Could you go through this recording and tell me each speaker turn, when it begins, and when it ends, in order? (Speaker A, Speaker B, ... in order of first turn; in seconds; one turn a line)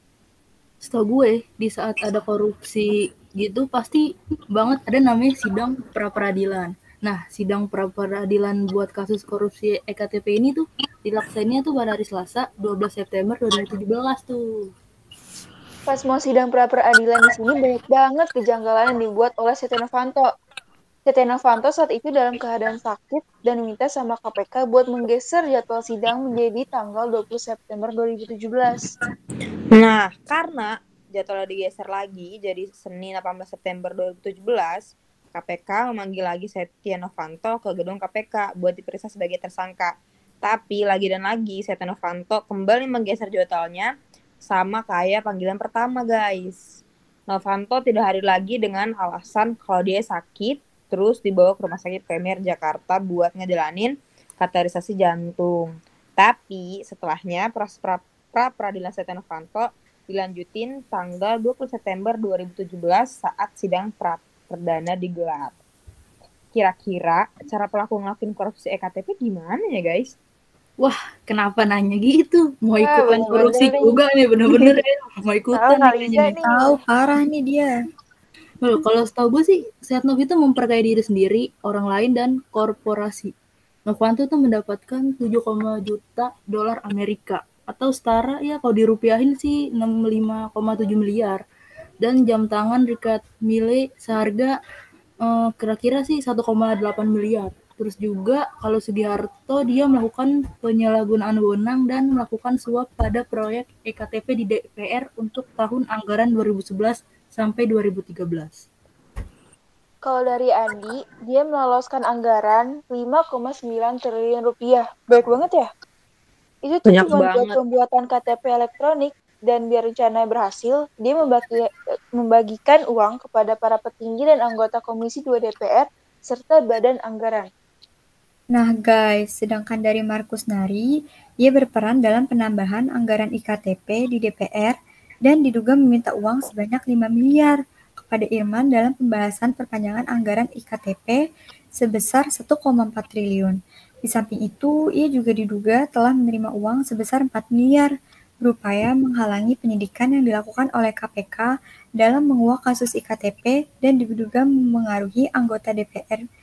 Speaker A: 0.8-14.7
Speaker B: 15.9-20.3
Speaker B: 21.0-28.9
Speaker C: 29.7-43.9
Speaker C: 44.5-46.6
Speaker C: 47.3-65.5
Speaker C: 66.5-70.1
Speaker A: 70.8-76.3
Speaker B: 72.8-74.0
Speaker B: 75.5-76.8
Speaker D: 76.4-77.7
Speaker A: 78.6-83.3
Speaker A: 83.8-91.4
Speaker A: 92.0-94.6
Speaker A: 95.2-108.6
Speaker B: 110.0-115.7
Speaker B: 116.6-127.5
Speaker C: 116.8-117.6
Speaker D: 128.5-130.9
Speaker D: 131.4-141.2
Speaker D: 141.8-147.9
Speaker D: 148.4-156.2